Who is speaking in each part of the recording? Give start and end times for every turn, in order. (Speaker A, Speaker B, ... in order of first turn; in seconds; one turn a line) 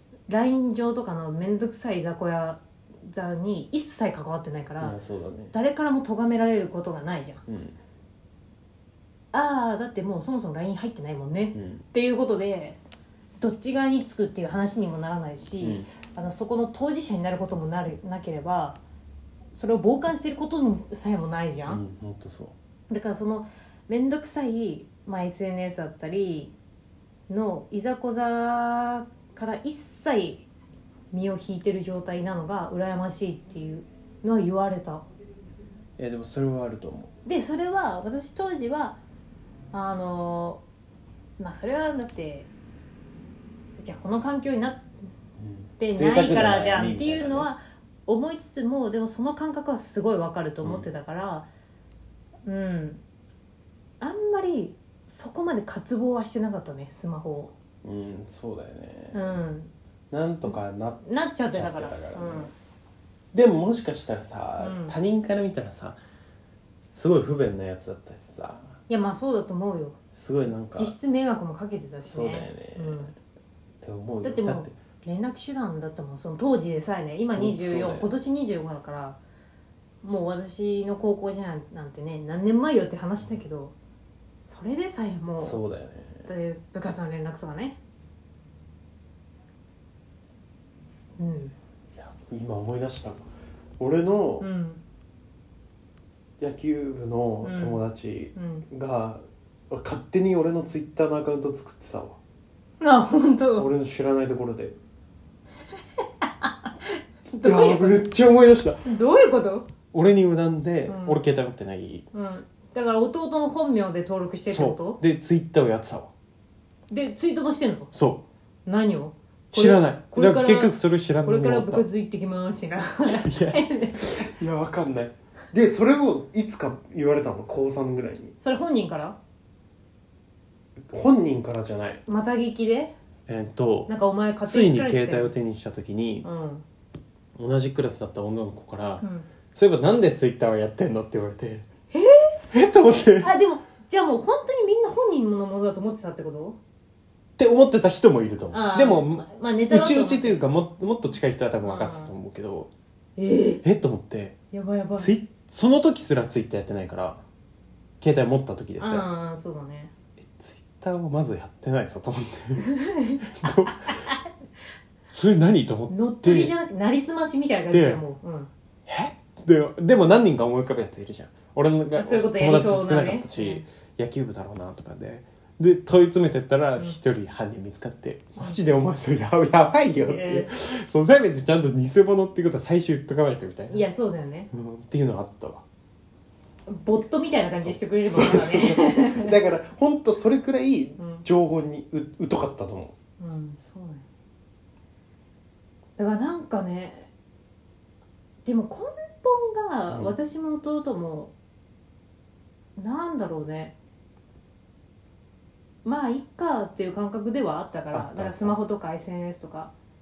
Speaker A: 0.3-5.0
Speaker B: 4.8-5.5
Speaker A: 5.5-7.4
Speaker B: 7.5-7.8
Speaker A: 9.3-12.8
Speaker B: 11.5-11.8
Speaker A: 13.4-18.8
Speaker B: 15.6-15.9
Speaker A: 19.5-21.8
Speaker B: 21.7-22.5
Speaker A: 22.9-26.5
Speaker A: 27.3-30.5
Speaker A: 31.1-35.0
Speaker B: 36.0-37.1
Speaker A: 37.2-39.0
Speaker A: 39.7-40.6
Speaker A: 41.4-42.5
Speaker A: 43.8-44.9
Speaker B: 45.4-47.5
Speaker A: 45.8-51.5
Speaker B: 50.6-50.9
Speaker A: 52.5-53.0
Speaker A: 54.0-57.5
Speaker B: 57.8-59.2
Speaker A: 59.1-59.7
Speaker B: 60.1-62.5
Speaker A: 60.5-62.5
Speaker B: 63.3-66.0
Speaker A: 64.6-65.0
Speaker B: 66.9-68.8
Speaker A: 68.9-70.0
Speaker B: 70.2-71.0
Speaker A: 70.7-73.1
Speaker B: 72.0-73.1
Speaker B: 73.8-74.7
Speaker A: 74.2-79.2
Speaker B: 77.3-78.1
Speaker A: 80.0-83.8
Speaker A: 84.4-85.6
Speaker B: 85.4-86.3
Speaker A: 86.3-87.8
Speaker A: 91.2-91.5
Speaker B: 92.0-93.2
Speaker B: 93.8-94.5
Speaker A: 94.4-94.8
Speaker B: 96.4-102.2
Speaker A: 97.4-97.8
Speaker A: 98.4-98.7
Speaker A: 102.8-103.7
Speaker B: 103.6-104.8
Speaker A: 106.2-106.7
Speaker A: 107.3-108.0
Speaker B: 107.4-108.8
Speaker A: 108.8-109.7
Speaker B: 109.9-112.1
Speaker A: 110.9-111.2
Speaker A: 112.1-115.0
Speaker B: 114.5-116.1
Speaker A: 116.9-117.9
Speaker B: 117.9-118.2
Speaker A: 118.7-124.2
Speaker B: 119.5-121.9
Speaker B: 123.0-128.3
Speaker A: 128.4-129.2
Speaker B: 130.8-132.0
Speaker A: 132.1-132.9
Speaker B: 133.3-133.9
Speaker A: 133.9-135.3
Speaker B: 134.5-136.3
Speaker A: 136.2-136.6
Speaker B: 137.4-141.7
Speaker A: 139.0-139.3
Speaker A: 141.9-142.3
Speaker B: 142.5-143.3
Speaker A: 143.2-146.6
Speaker B: 147.4-152.7
Speaker A: 148.5-150.4
Speaker A: 151.6-152.1
Speaker A: 153.2-153.6
Speaker B: 153.6-154.4
Speaker A: 154.5-155.1
Speaker B: 154.9-157.2
Speaker B: 158.0-159.1
Speaker A: 158.8-159.9
Speaker B: 160.2-162.7
Speaker A: 162.6-164.2
Speaker B: 163.3-164.0
Speaker B: 165.1-166.5
Speaker A: 165.9-168.5
Speaker B: 167.7-168.0
Speaker B: 168.9-183.9
Speaker A: 172.0-173.7
Speaker A: 180.0-180.6
Speaker A: 183.7-184.5
Speaker B: 184.5-185.6
Speaker A: 186.7-189.3
Speaker B: 187.5-192.9
Speaker A: 191.0-191.2
Speaker A: 193.2-194.1
Speaker A: 196.0-197.1
Speaker A: 198.4-201.3
Speaker B: 199.9-200.2
Speaker A: 202.8-203.8
Speaker A: 205.8-209.7
Speaker B: 207.9-208.6